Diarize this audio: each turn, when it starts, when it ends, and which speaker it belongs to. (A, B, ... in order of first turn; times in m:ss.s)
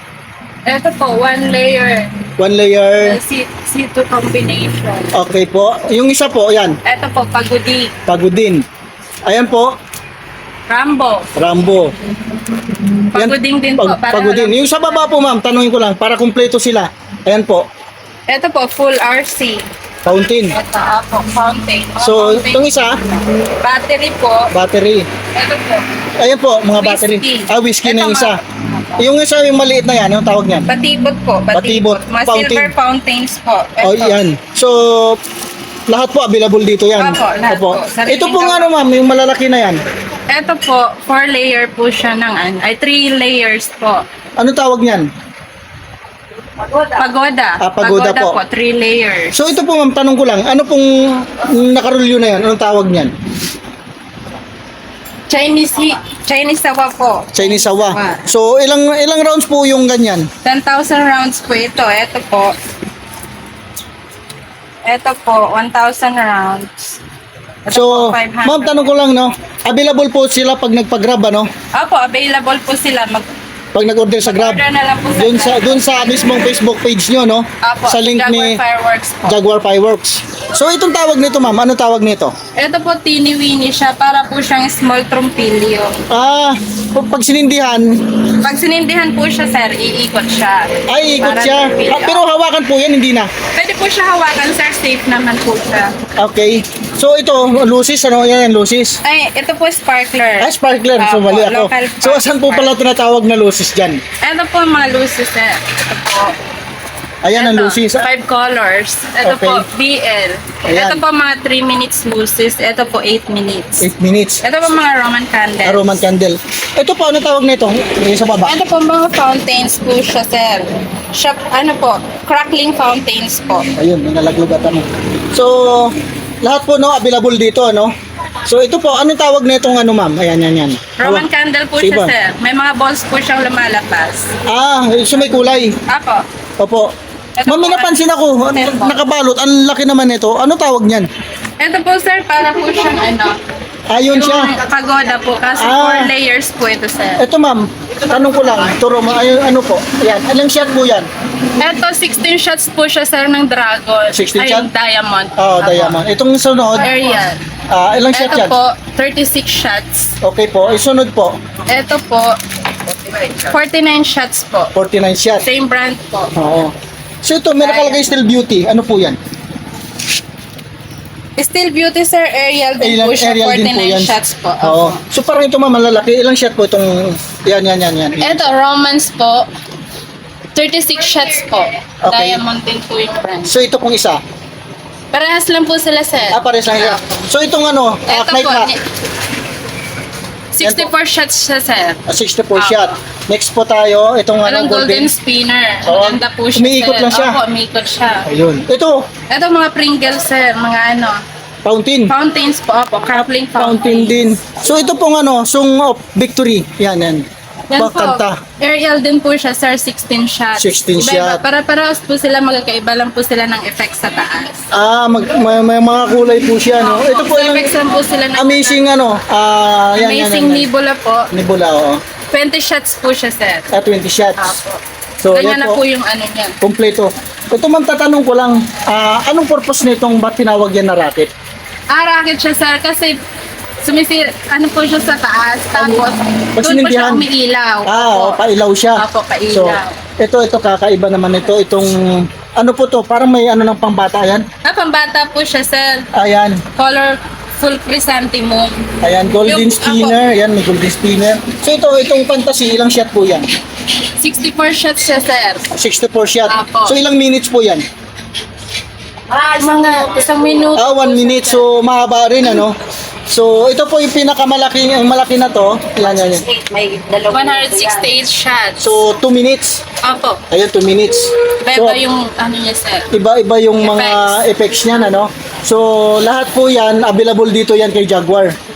0:00.7-0:02.2 A
0:02.4-0:03.2 B
0:03.0-0:05.1 A
0:05.1-0:06.8 B
0:06.8-0:07.9 A
0:08.1-0:08.6 B
0:09.3-0:09.7 B
0:10.7-0:11.3 A
0:11.4-0:11.9 B
0:13.1-0:15.0 A
0:13.1-0:17.7 B
0:18.3-0:19.7 A
0:20.0-0:20.6 B
0:20.5-0:22.7 A
0:22.0-0:23.0 B
0:23.6-0:24.5 A
0:24.5-0:25.1 B
0:25.4-0:25.9 A
0:26.2-0:28.4 B
0:26.8-0:29.0 A
0:29.0-0:30.7 B
0:30.7-0:34.2 A
0:31.5-0:32.7 B
0:33.8-0:35.2 B
0:35.9-0:39.8 B
0:37.0-0:38.7 A
0:40.3-0:44.0 A
0:44.4-0:45.1 B
0:46.8-0:49.5 A
0:47.6-0:48.4 B
0:49.3-0:53.1 B
0:55.3-0:58.2 A
0:57.3-1:00.3 B
1:00.4-1:02.6 A
1:04.8-1:06.7 A
1:07.7-1:08.9 A
1:07.7-1:11.5 B
1:11.7-1:13.3 A
1:13.7-1:14.6 B
1:14.2-1:16.3 A
1:15.2-1:18.6 B
1:17.6-1:19.4 A
1:19.2-1:22.3 B
1:22.6-1:26.0 A
1:26.1-1:28.2 B
1:28.4-1:32.3 A
1:30.9-1:33.3 B
1:33.5-1:35.9 A
1:36.2-1:39.0 B
1:39.0-1:42.7 A
1:40.4-1:44.0 B
1:44.2-1:46.4 A
1:47.2-1:48.1 B
1:47.4-1:53.9 A
1:49.2-1:49.7 B
1:50.7-1:51.0 B
1:53.8-1:54.4 B
1:54.4-1:55.9 A
1:55.6-1:58.6 B
1:58.4-2:03.7 A
2:03.8-2:07.9 B
2:08.4-2:11.3 B
2:11.0-2:14.3 A
2:11.8-2:12.1 B
2:14.5-2:15.8 B
2:15.9-2:16.2 A
2:16.6-2:16.9 B
2:17.4-2:19.0 A
2:17.5-2:21.1 B
2:21.6-2:23.4 A
2:23.9-2:24.6 B
2:24.1-2:27.3 A
2:25.6-2:26.1 B
2:27.2-2:31.1 B
2:31.6-2:36.0 A
2:34.1-2:34.7 B
2:35.4-2:37.0 B
2:36.8-2:37.4 A
2:37.7-2:38.6 B
2:38.1-2:40.1 A
2:40.2-2:41.4 B
2:41.7-2:42.4 A
2:43.2-2:44.7 A
2:44.8-2:45.5 B
2:45.4-2:46.3 A
2:46.4-2:49.2 B
2:47.6-2:48.1 A
2:51.4-2:55.0 A
2:52.8-2:58.5 B
2:58.2-2:59.5 A
3:00.6-3:03.5 A
3:02.0-3:02.4 B
3:03.4-3:04.2 B
3:05.1-3:07.1 A
3:06.3-3:08.7 B
3:08.1-3:08.8 A
3:10.5-3:12.0 A
3:10.6-3:10.9 B
3:12.1-3:15.1 B
3:12.6-3:12.9 A
3:14.4-3:18.3 A
3:15.8-3:17.4 B
3:18.3-3:19.0 B
3:19.3-3:21.2 A
3:21.6-3:22.1 B
3:22.1-3:24.2 A
3:23.6-3:28.4 B
3:27.7-3:34.6 A
3:30.6-3:31.4 B
3:34.7-3:37.8 B
3:36.7-3:38.8 A
3:38.4-3:40.7 B
3:40.0-3:41.3 A
3:41.3-3:42.0 B
3:42.3-3:43.7 A
3:43.7-3:44.6 B
3:44.4-3:46.6 A
3:45.2-3:45.8 B
3:46.6-3:51.3 B
3:51.9-3:53.2 A
3:53.8-3:58.4 A
3:55.8-3:56.0 B
3:56.6-3:57.3 B
3:57.9-4:04.5 B
3:59.0-4:00.0 A
4:04.6-4:06.1 A
4:06.1-4:06.6 B
4:06.8-4:08.9 A
4:09.0-4:13.5 B
4:09.4-4:10.2 A
4:14.2-4:15.7 A
4:15.7-4:17.9 B
4:16.5-4:17.0 A
4:19.3-4:21.2 C
4:19.6-4:21.6 A
4:20.8-4:22.8 B
4:23.3-4:26.4 B
4:26.0-4:28.1 C
4:27.3-4:29.0 A
4:28.8-4:29.8 B
4:30.0-4:30.4 A
4:30.5-4:32.0 B
4:31.6-4:33.1 A
4:33.1-4:38.6 B
4:33.8-4:34.4 A